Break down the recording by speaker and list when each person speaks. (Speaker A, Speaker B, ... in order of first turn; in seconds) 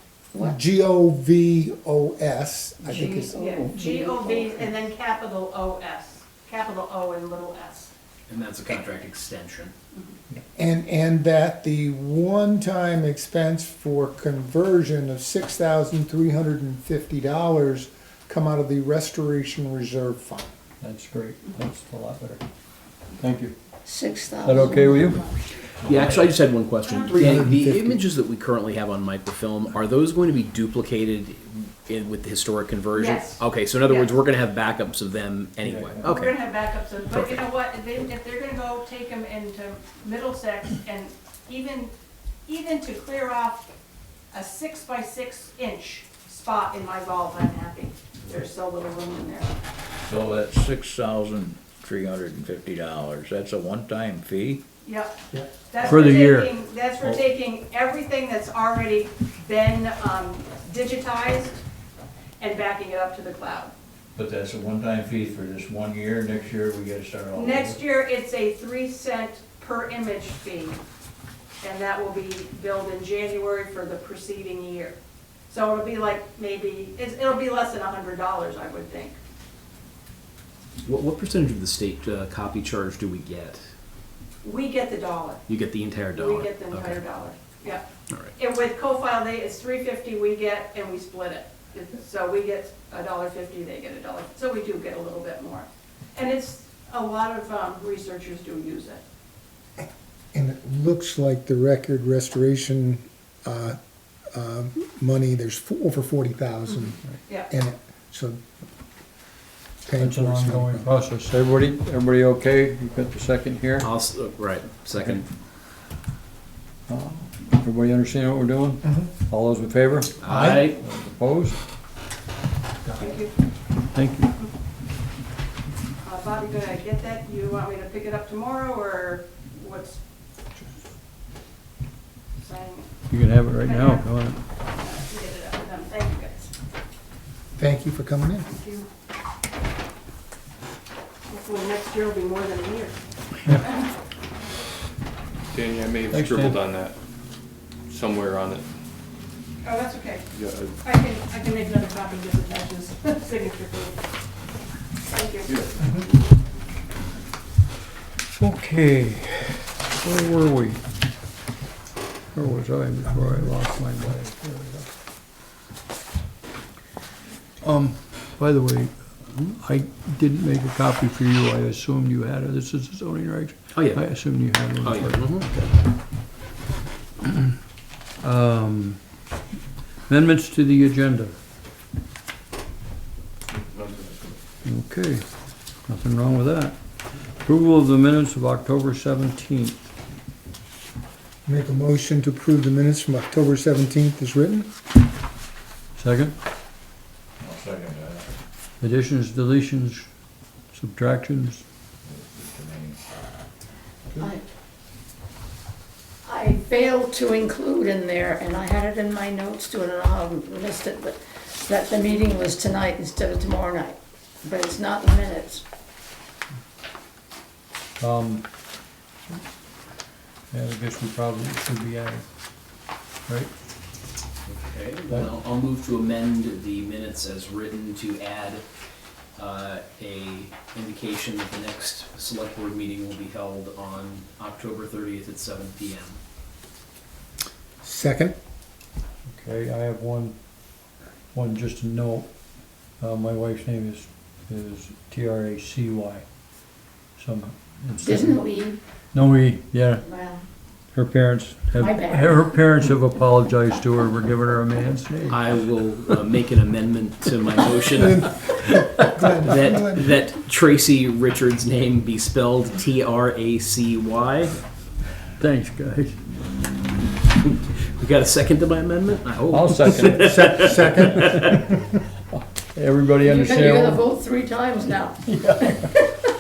Speaker A: 0.3-0.6, 2.8-4.7, 23.9-25.3, 206.2-215.6, 248.0-248.8, 250.0-250.4, 251.8-252.6, 273.2-275.7
Speaker B: 0.4-3.4, 10.6-20.5, 27.1-28.1, 99.8-103.8, 104.3-108.5, 109.9-110.9, 120.3-120.6, 122.8-123.2, 137.6-138.5, 163.2-163.5, 191.5-194.7, 237.8-238.4, 258.0-260.1, 270.1-271.6
Speaker C: 3.4-7.9, 26.8-27.4, 32.9-34.2, 36.0-41.9, 42.5-43.7, 44.3-49.6, 54.8-55.1, 55.7-61.6, 62.4-63.7, 67.3-70.8, 71.6-75.0, 75.5-79.2, 84.4-85.5, 86.1-99.0, 123.0-123.3, 126.0-130.0, 132.4-132.9, 133.6-134.1, 134.7-136.5, 138.5-138.9, 141.3-143.9, 149.6-154.0, 155.1-155.7
Speaker D: 8.3-9.7, 25.8-36.4, 37.1-37.5, 80.8-83.6, 85.5-87.0, 113.8-115.3, 120.2-120.8, 173.7-174.0, 174.8-175.5, 224.5-228.6, 229.4-236.2, 255.3-258.6, 259.4-264.6, 267.5-271.6
Speaker E: 20.8-22.4, 23.2-23.5, 24.4-25.2, 35.6-36.1, 55.9-56.5, 110.0-113.9, 115.0-115.2, 116.9-121.6, 123.9-124.3, 133.1-134.4, 146.1-146.6, 158.3-160.8, 162.3-164.9, 167.6-175.9, 178.2-179.0, 180.1-181.4, 184.7-185.2, 185.9-189.8, 196.0-196.4, 198.8-200.1, 200.7-201.7, 218.0-218.5, 220.5-222.3, 239.3-240.4, 241.3-242.3, 243.0-246.3, 247.2-248.4, 249.1-250.1, 250.9-255.6, 265.4-266.2, 269.5-271.6, 272.3-274.0, 275.2-276.0
Speaker F: 50.0-54.6, 64.2-67.8, 197.4-198.3, 202.0-203.0
Speaker G: 145.5-147.0, 147.9-148.7, 150.4-150.8, 155.5-155.9, 183.8-184.1